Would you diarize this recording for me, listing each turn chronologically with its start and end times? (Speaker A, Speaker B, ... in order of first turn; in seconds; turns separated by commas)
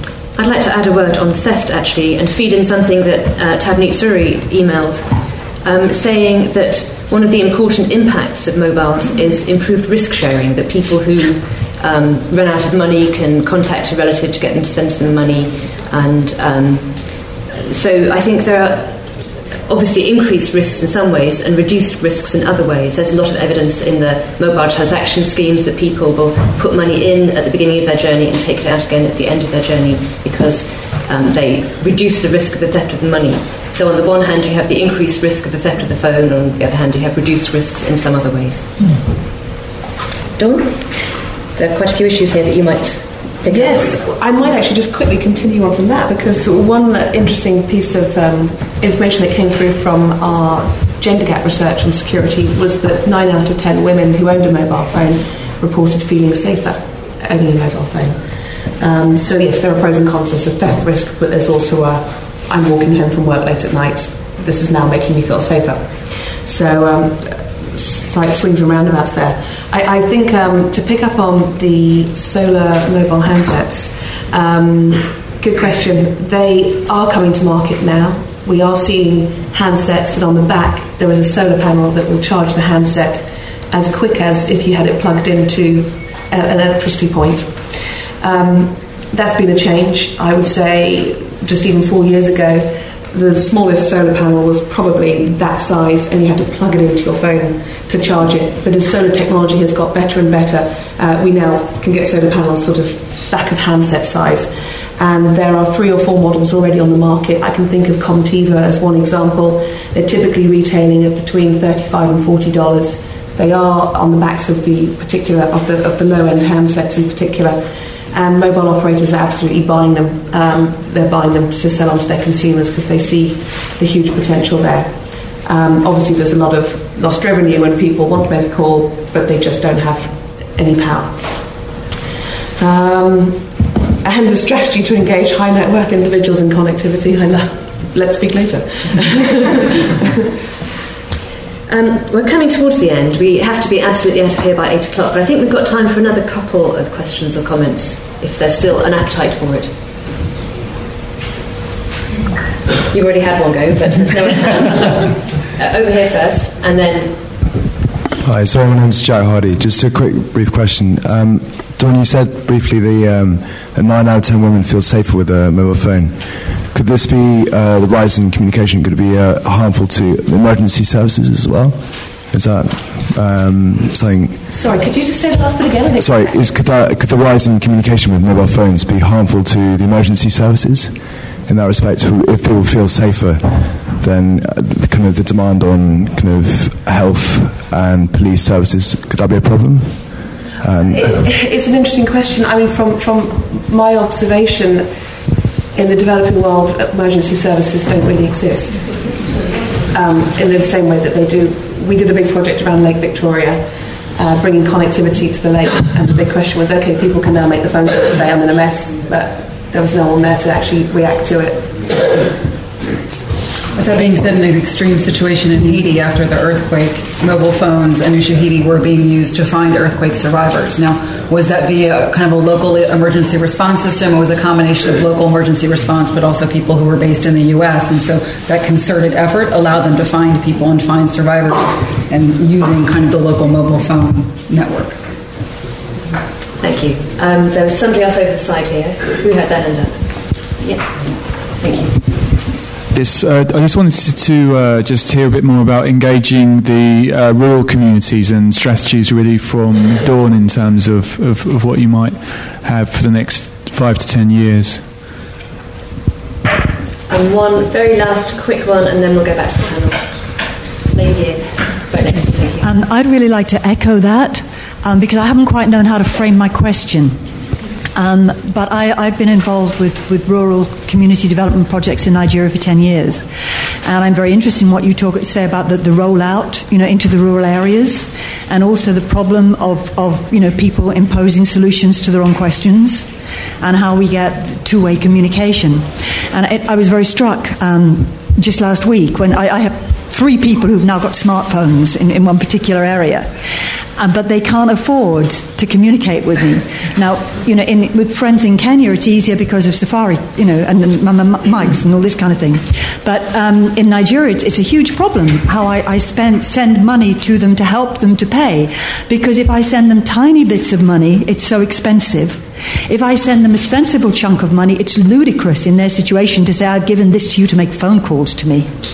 Speaker A: 0.4-38.7, Speaker A: 40.4-43.9, Speaker B: 43.5-58.2, Speaker B: 58.8-131.6, Speaker B: 132.6-140.0, Speaker A: 141.7-149.7, Speaker A: 152.9-157.2, Speaker C: 158.2-174.4, Speaker B: 174.5-176.6, Speaker C: 176.0-191.2, Speaker B: 190.7-194.9, Speaker B: 195.7-199.1, Speaker B: 199.9-212.2, Speaker D: 213.8-235.0, Speaker A: 236.6-242.1, Speaker E: 242.9-254.9, Speaker A: 257.1-262.7, Speaker F: 262.1-267.2, Speaker F: 267.9-273.3, Speaker F: 273.8-293.3, Speaker F: 294.0-318.7